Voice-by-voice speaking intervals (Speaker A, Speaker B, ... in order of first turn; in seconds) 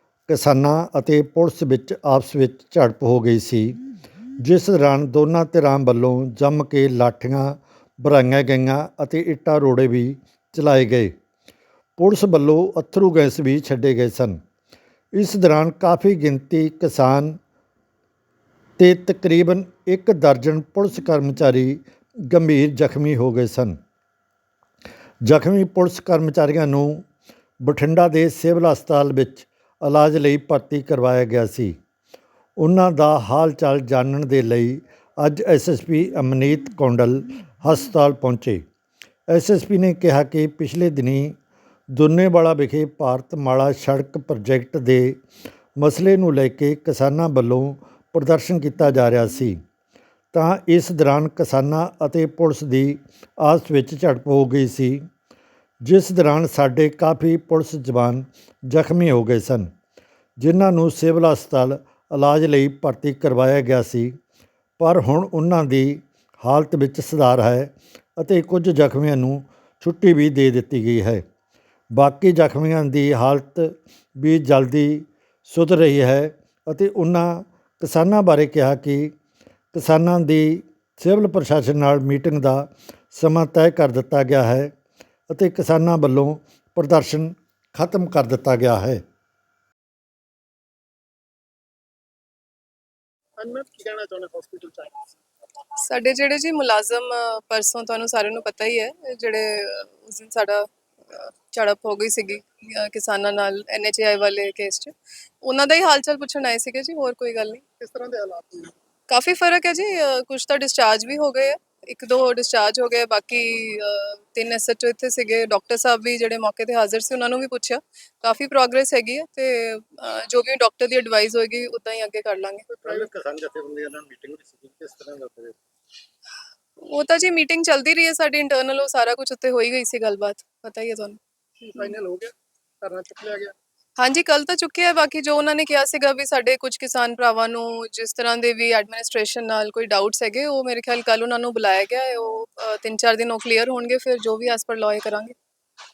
Speaker A: 0.3-3.8, 4.4-11.1, 12.0-14.4, 15.2-17.4, 18.8-23.8, 25.3-27.0, 27.6-31.8, 32.6-38.6, 39.3-41.3, 41.9-45.2, 45.8-49.6, 50.3-55.0, 55.8-59.7, 60.4-64.1, 64.8-71.2, 72.0-79.1, 79.7-84.7, 85.3-89.0
Speaker B: 93.4-95.1, 107.8-108.7, 122.7-125.5, 131.6-133.6
Speaker C: 95.8-107.6, 109.1-122.7, 126.8-131.2, 134.0-145.3